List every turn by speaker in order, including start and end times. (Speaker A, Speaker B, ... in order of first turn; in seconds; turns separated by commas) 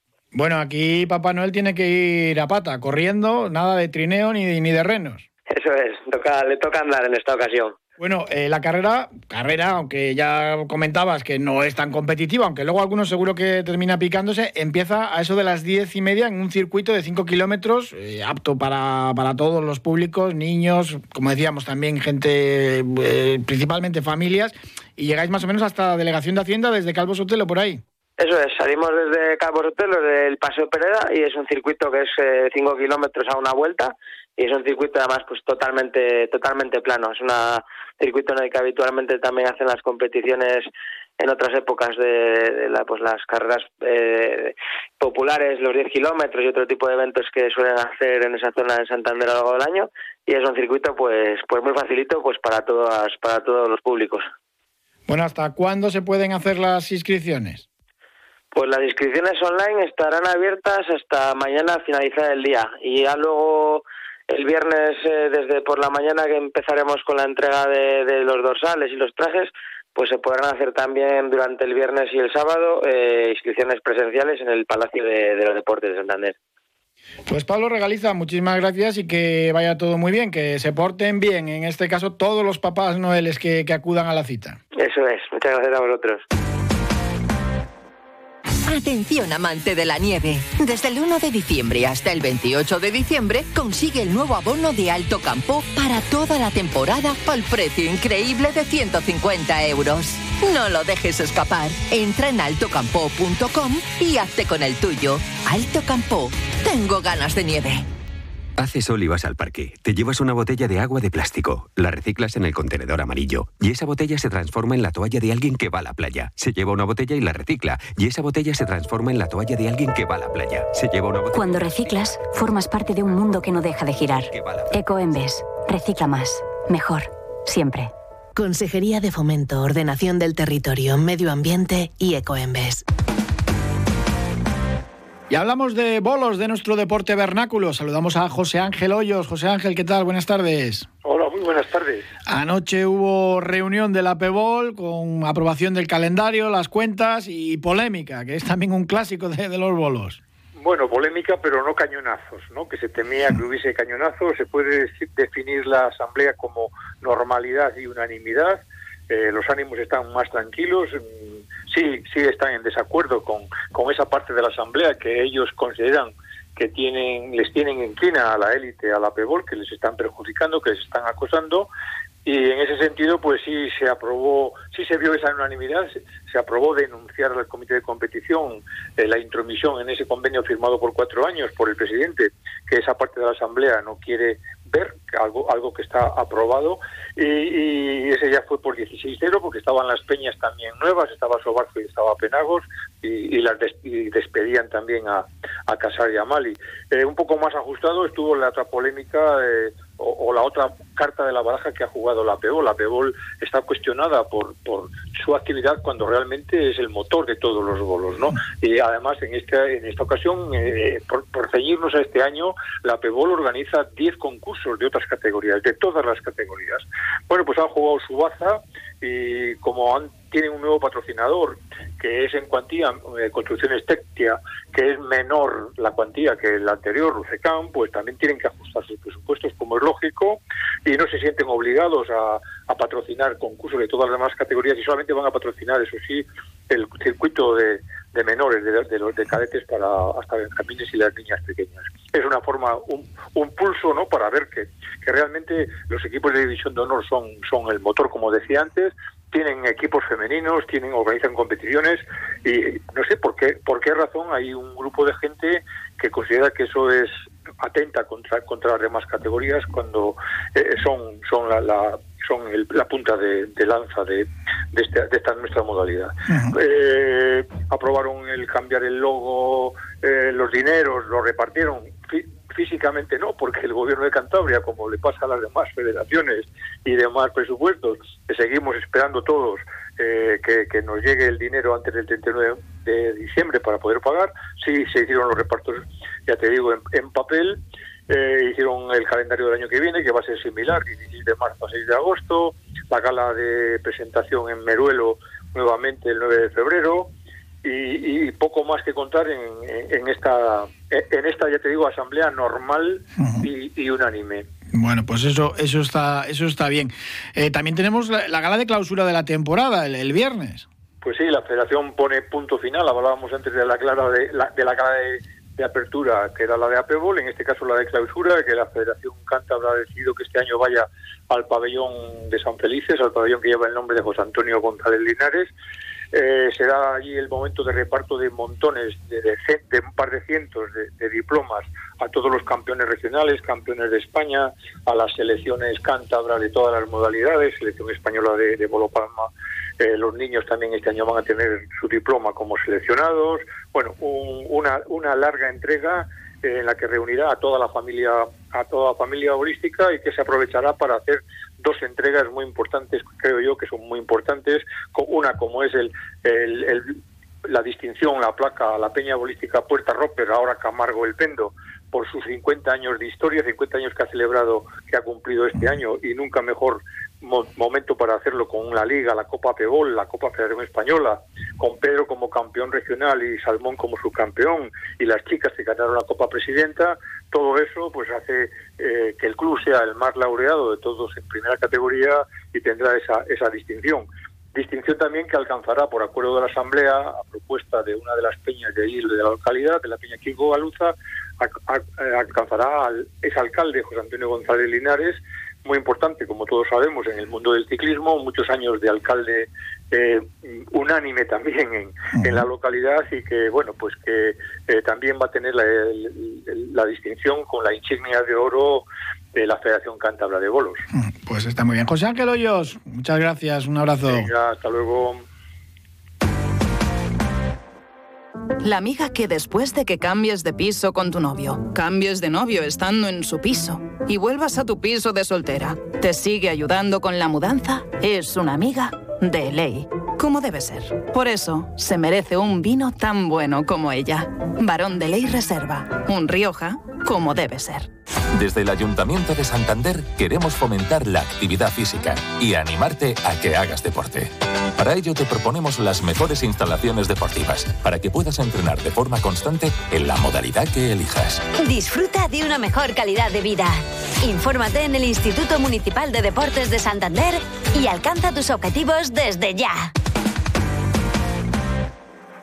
Speaker A: 0.3-5.2, Speaker B: 5.5-7.8, Speaker A: 8.0-27.8, Speaker B: 28.2-54.3, Speaker A: 55.1-57.6, Speaker B: 58.5-76.4, Speaker A: 77.3-84.6, Speaker B: 84.8-86.2, Speaker C: 88.7-107.9, Speaker D: 108.6-121.7, Speaker E: 121.4-127.9, Speaker D: 124.3-124.7, Speaker F: 128.4-132.8, Speaker A: 135.3-140.9, Speaker G: 141.0-142.1, Speaker A: 142.3-150.2, Speaker G: 150.6-161.0, Speaker G: 161.5-171.7, Speaker G: 172.2-297.1, Speaker A: 266.3-266.6, Speaker G: 297.6-304.5, Speaker A: 303.2-303.5, Speaker A: 304.7-310.7, Speaker G: 311.0-325.5, Speaker G: 326.1-410.8, Speaker A: 402.1-402.5, Speaker A: 410.9-414.3, Speaker G: 414.1-415.2, Speaker H: 418.6-437.9, Speaker I: 438.3-451.4, Speaker J: 451.6-459.9